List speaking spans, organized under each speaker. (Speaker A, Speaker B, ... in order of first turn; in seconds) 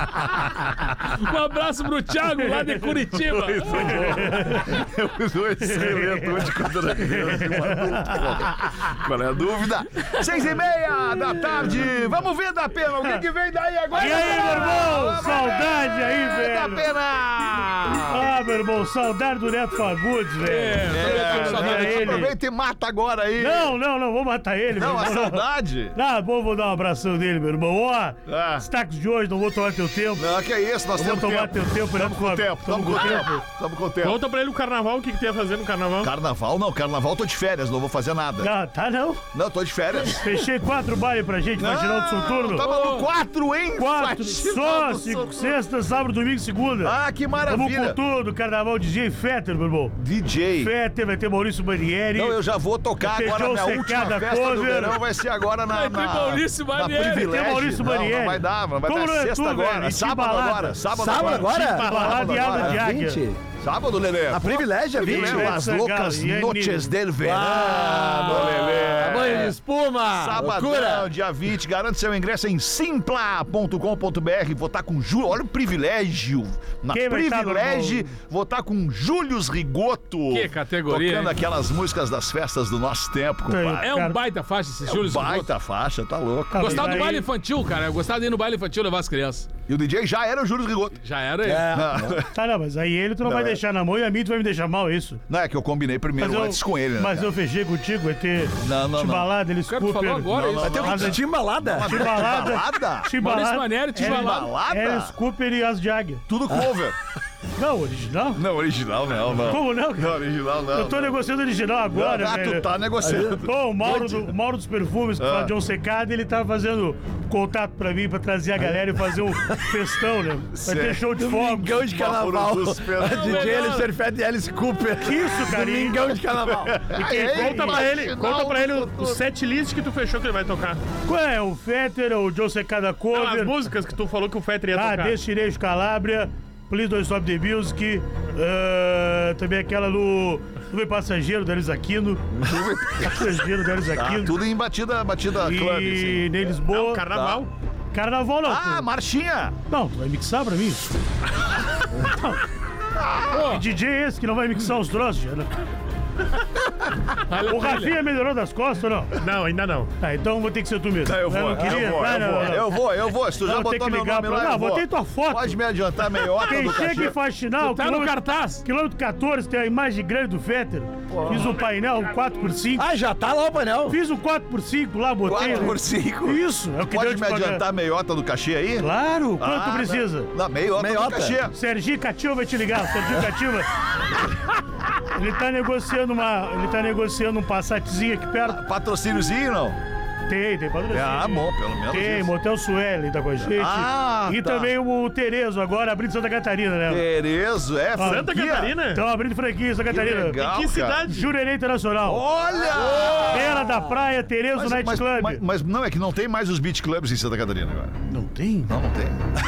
Speaker A: 1.0-4.3, 20.4-22.3, 42.6-43.1, 55.7-57.4, 80.3-81.3, 83.8-85.5, 86.6-89.5, 91.0-91.8, 99.7-101.1, 103.2-104.5, 153.3-153.6, 157.3-158.0, 167.6-168.6, 202.8-203.4
Speaker B: 3.1-18.3, 20.9-23.8, 24.7-26.0, 28.2-28.6, 30.2-34.2, 36.0-38.5, 39.3-40.3, 41.6-45.6, 46.8-48.0, 50.0-50.7, 52.1-62.8, 63.6-69.6, 70.1-83.9, 84.8-87.1, 89.7-91.0, 91.7-92.3, 93.2-93.6, 95.3-97.3, 98.6-99.3, 100.3-103.2, 103.9-105.1, 106.3-107.0, 108.3-111.2, 111.9-114.3, 115.2-115.5, 120.5-121.1, 121.7-123.5, 126.4-129.2, 142.3-146.3, 147.1-147.4, 148.4-149.5, 161.0-167.2, 171.1-171.6, 175.2-181.5, 188.4-189.8, 190.9-192.3, 193.4-194.7, 196.9-198.8, 199.9-201.1, 202.0-203.7, 204.5-208.0, 208.7-209.2
Speaker C: 4.1-4.8, 5.7-6.4, 7.1-8.2, 13.9-16.9, 18.1-22.3, 23.4-30.3, 30.9-33.4, 38.4-39.2, 40.0-42.7, 43.8-50.0, 50.6-52.4, 53.0-55.0, 57.0-63.2, 65.0-66.9, 76.9-78.1, 83.5-84.2, 86.5-87.2, 92.3-95.2, 96.2-101.2, 101.8-106.2, 107.6-108.4, 109.4-110.2, 110.7-112.7, 113.4-121.8, 125.0-126.2, 127.2-127.8, 131.1-133.6, 134.7-142.3, 143.0-144.4, 145.4-147.1, 147.9-148.9, 149.7-150.9, 151.9-152.4, 153.3-155.5, 157.4-159.1, 160.0-162.8, 163.4-165.6, 166.4-172.9, 173.9-177.6, 178.8-180.3, 181.5-183.7, 185.1-188.6, 190.3-197.1, 198.0-198.3, 198.9-200.4, 201.0-202.2, 203.2-205.4, 208.1-208.7
Speaker D: 34.0-36.1, 123.2-123.9, 126.9-130.8, 133.1-135.2, 146.7-147.5, 159.2-159.9, 198.0-199.0, 200.3-201.3
Speaker E: 60.9-63.4, 64.3-65.6, 67.2-71.1, 91.4-92.2, 100.6-102.3, 113.0-113.4, 121.1-126.9, 172.8-174.0, 180.8-181.4